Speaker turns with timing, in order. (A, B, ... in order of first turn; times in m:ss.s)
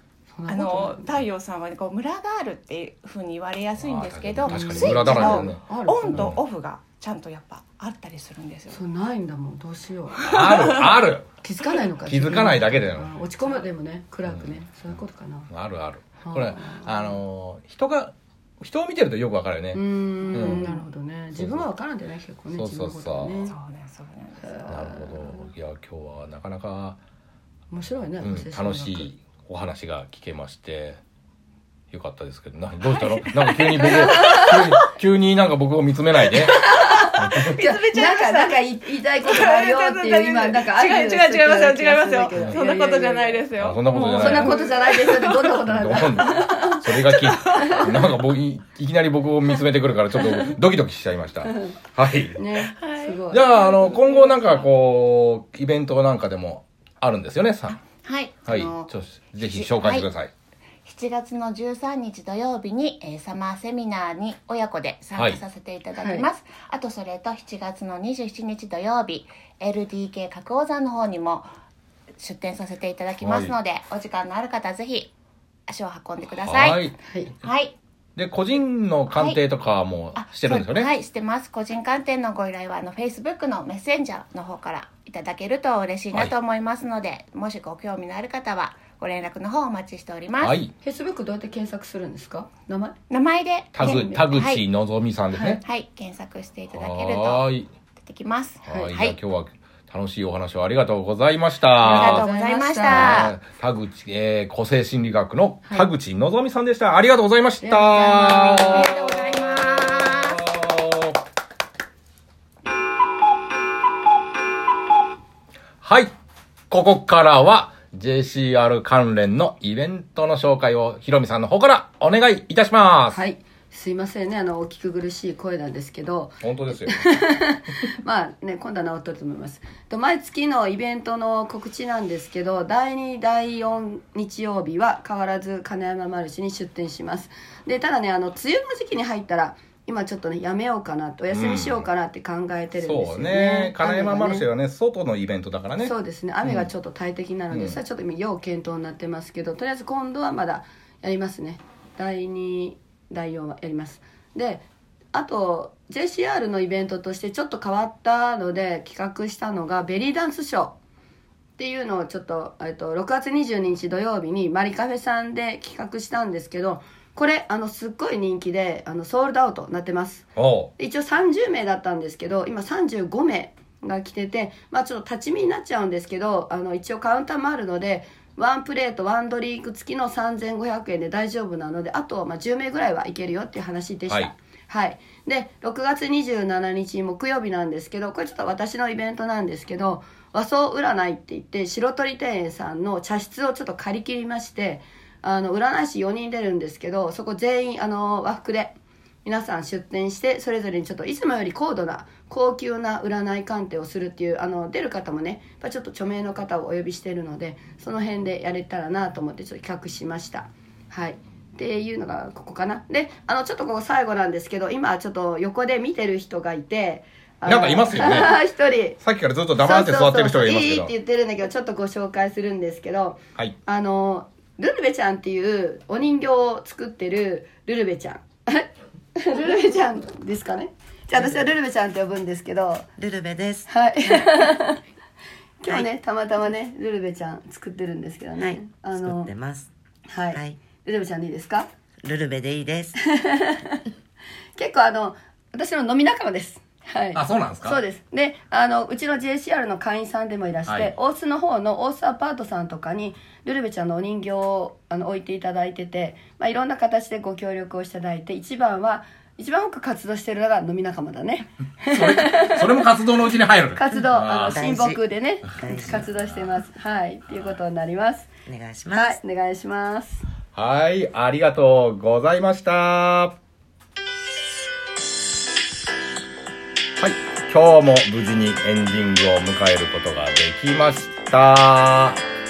0:00.3-0:01.1 A
0:00.5-0:08.8 B
0:03.8-0:06.4 C
0:04.4-0:06.4 A
0:08.7-0:10.3 A
0:10.2-0:11.3 C
0:10.2-0:10.9 B
0:11.4-0:15.5 A
0:12.0-0:13.1 C
0:14.2-0:14.8 C
0:15.5-0:20.8 C
0:16.2-0:17.2 A
0:19.7-0:23.5 A
0:20.2-0:20.8 B
0:21.3-0:21.7 C
0:22.5-0:23.5 C
0:23.5-0:25.0 B
0:24.4-0:25.5 A
0:24.7-0:27.0 C
0:27.7-0:29.1 A
0:28.2-0:31.0 C
0:31.9-0:37.5 C
0:33.4-0:34.8 A
0:33.8-0:34.6 B
0:36.4-0:38.7 B
0:36.5-0:46.8 A
0:39.2-0:45.6 B
0:43.6-0:44.6 C
0:45.6-0:52.5 C
0:47.1-0:48.0 B
0:47.5-0:47.8 A
0:52.3-0:53.7 A
0:52.8-0:54.7 B
0:53.3-0:57.8 C
0:57.8-1:00.1 B
0:58.5-1:00.3 C
1:00.8-1:11.5 B
1:05.2-1:05.4 C
1:06.0-1:06.3 A
1:12.2-1:15.1 B
1:13.2-1:13.5 C
1:15.7-1:16.9 B
1:16.4-1:17.0 C
1:17.0-1:17.3 A
1:17.4-1:17.8 B
1:18.2-1:20.9 C
1:19.1-1:19.4 B
1:20.1-1:30.6 B
1:30.4-1:30.7 C
1:30.8-1:33.0 A
1:33.1-1:34.6 B
1:33.7-1:35.6 C
1:33.8-1:34.3 A
1:35.4-1:39.2 B
1:36.7-1:37.7 C
1:38.6-1:42.2 C
1:38.7-1:38.9 A
1:41.8-1:43.4 B
1:41.8-1:43.3 A
1:42.9-1:51.2 C
1:47.6-1:49.3 A
1:48.5-1:50.4 B
1:55.8-1:56.1 C
1:56.7-2:03.2 C
2:03.1-2:24.5 A
2:06.4-2:07.0 C
2:21.3-2:21.8 C
2:22.7-2:26.7 C
2:25.8-2:40.8 A
2:27.5-2:27.8 C
2:41.6-2:50.2 A
2:50.4-2:50.7 C
2:50.8-3:39.0 A
3:37.4-3:38.4 C
3:39.0-3:40.9 C
3:39.6-3:52.9 A
3:53.0-3:54.2 D
3:53.7-3:54.8 A
3:55.6-3:59.3 A
3:58.4-3:59.7 D
4:00.1-4:01.7 A
4:00.3-4:00.6 D
4:02.0-4:03.0 D
4:03.1-4:03.8 A
4:04.6-4:23.0 A
4:07.1-4:07.8 C
4:10.7-4:10.9 C
4:21.9-4:24.6 C
4:23.7-4:28.3 A
4:24.4-4:25.0 D
4:25.5-4:26.1 D
4:28.4-4:29.2 D
4:28.9-4:30.2 A
4:30.5-4:33.3 C
4:37.0-4:42.2 C